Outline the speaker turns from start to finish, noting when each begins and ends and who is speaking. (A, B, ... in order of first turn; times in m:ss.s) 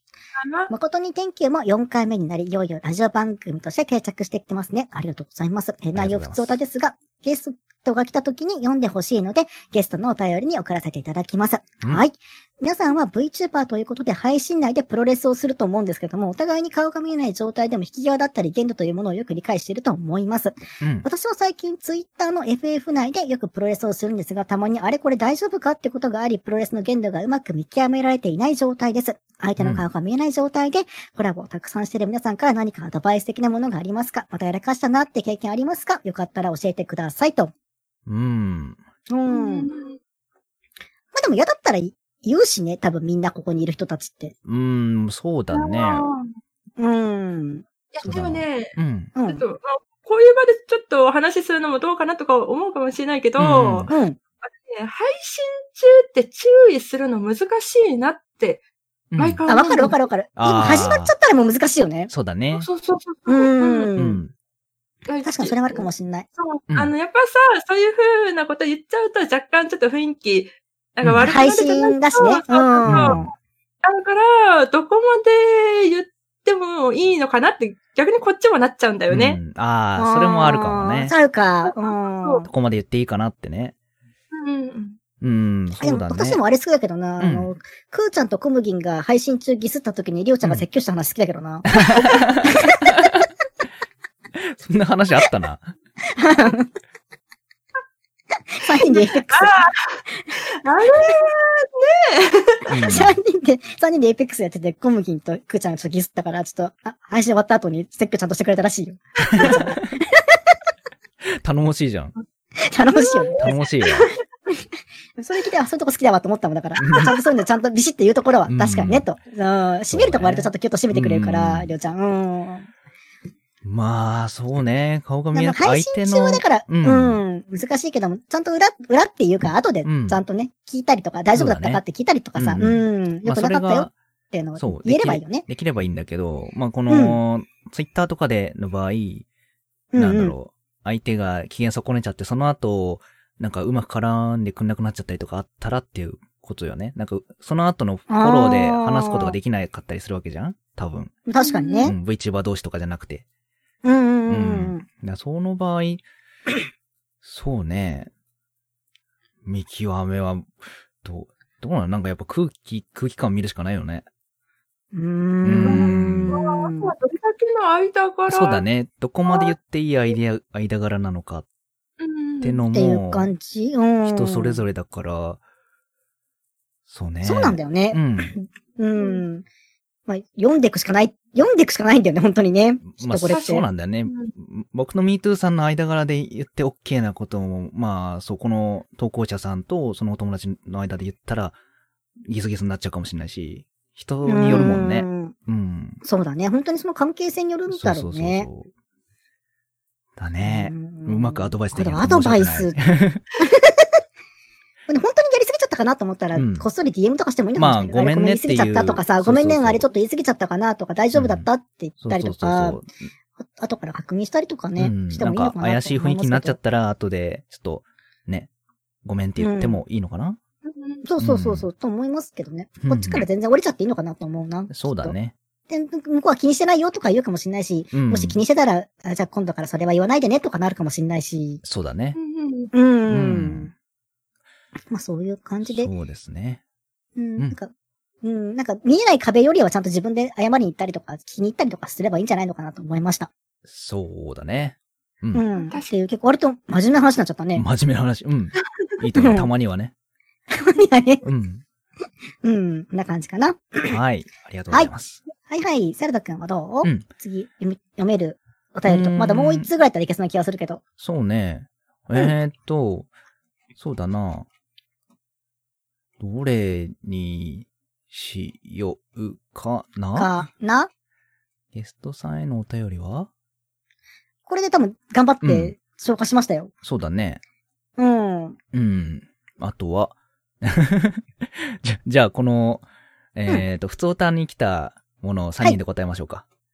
0:00.4-0:00.7 A
0:00.7-0:37.5 B
0:06.0-0:06.5 C
0:38.1-0:38.8 C
0:39.1-0:39.7 B
0:39.3-0:40.0 A
0:41.1-0:44.3 B
0:44.5-0:46.0 C
0:45.5-0:46.3 A
0:46.8-0:47.6 B
0:47.9-0:58.6 A
0:48.0-0:49.1 C
0:49.2-0:49.4 B
0:53.4-0:53.9 C
0:53.9-0:54.2 B
0:59.1-0:59.4 C
0:59.2-1:00.0 A
0:59.5-1:02.1 B
1:00.4-1:01.1 C
1:02.1-1:02.7 C
1:02.5-1:03.9 A
1:03.3-1:04.2 B
1:04.0-1:04.3 C
1:05.1-1:05.9 A
1:05.2-1:06.3 B
1:06.4-1:13.2 A
1:11.0-1:11.4 C
1:11.2-1:13.3 B
1:12.9-1:13.3 C
1:13.8-1:19.4 A
1:19.1-1:21.1 C
1:20.0-1:22.5 B
1:21.6-1:22.4 A
1:22.5-1:23.8 C
1:24.3-1:25.0 A
1:25.2-1:26.4 C
1:25.8-1:33.1 B
1:27.2-1:27.5 C
1:31.7-1:33.2 C
1:34.4-1:35.7 C
1:36.1-1:36.7 B
1:38.6-1:39.6 B
1:38.8-1:42.7 A
1:40.7-1:41.2 B
1:42.7-1:43.2 C
1:42.8-1:50.5 B
1:49.4-1:49.6 C
1:51.2-1:52.1 C
1:52.6-1:53.5 B
1:52.9-1:54.0 A
1:53.4-1:54.1 C
1:55.2-2:02.7 B
1:56.8-1:57.2 C
1:58.5-1:59.1 C
1:59.9-2:01.7 C
2:03.6-2:07.2 C
2:05.3-2:15.5 B
2:09.8-2:10.2 C
2:11.3-2:11.8 C
2:12.4-2:13.9 C
2:14.6-2:19.3 C
2:16.9-2:17.2 B
2:19.9-2:20.4 B
2:20.0-2:31.1 C
2:28.1-2:29.4 B
2:31.3-2:32.0 B
2:31.4-2:31.9 A
2:31.8-2:33.2 C
2:33.8-2:34.8 B
2:34.3-2:36.0 C
2:37.2-2:38.1 C
2:39.4-2:44.1 C
2:44.9-2:46.9 B
2:45.4-2:46.4 C
2:45.7-2:48.6 A
2:48.3-2:51.4 C
2:49.3-2:49.5 A
2:52.0-2:52.6 A
2:52.4-2:53.3 C
2:52.7-2:54.6 B
2:54.0-2:55.4 C
2:56.9-2:58.3 C
2:57.2-2:59.4 B
2:59.0-2:59.2 A
3:00.1-3:03.6 B
3:02.9-3:11.6 C
3:03.3-3:04.3 A
3:12.3-3:16.0 C
3:14.2-3:15.3 B
3:16.0-3:18.5 B
3:17.7-3:18.7 C
3:20.2-3:23.2 C
3:20.4-3:22.8 B
3:23.4-3:24.0 B
3:24.9-3:32.8 B
3:26.4-3:26.7 C
3:27.6-3:29.8 C
3:31.1-3:31.5 C
3:32.0-3:33.1 C
3:33.4-3:36.6 B
3:34.8-3:38.5 C
3:39.0-3:40.4 C
3:39.4-3:39.8 B
3:40.7-3:41.0 A
3:41.0-3:45.2 B
3:41.2-3:41.7 C
3:42.8-3:43.3 C
3:44.7-3:45.3 C
3:45.7-3:51.6 B
3:47.9-3:48.4 C
3:51.6-3:52.2 C
3:52.2-3:52.7 A
3:52.7-3:53.7 B
3:53.1-3:53.7 C
3:54.9-3:55.9 B
3:55.6-3:56.6 C
3:57.2-3:57.7 B
3:58.2-4:03.3 B
4:03.7-4:05.5 C
4:05.3-4:07.6 B
4:05.6-4:05.9 A
4:07.6-4:09.9 C
4:09.2-4:09.5 B
4:10.5-4:11.2 B
4:11.2-4:11.6 C
4:12.4-4:14.0 B
4:13.9-4:15.2 C
4:15.4-4:20.8 B
4:18.9-4:19.7 C
4:21.0-4:23.1 C
4:23.8-4:24.5 C
4:26.2-4:30.4 C
4:30.2-4:30.9 B
4:31.7-4:33.3 C
4:34.5-4:36.7 B
4:35.4-4:35.7 C
4:36.8-4:37.4 C
4:38.0-4:38.6 B
4:38.7-4:42.8 C
4:43.4-4:46.4 C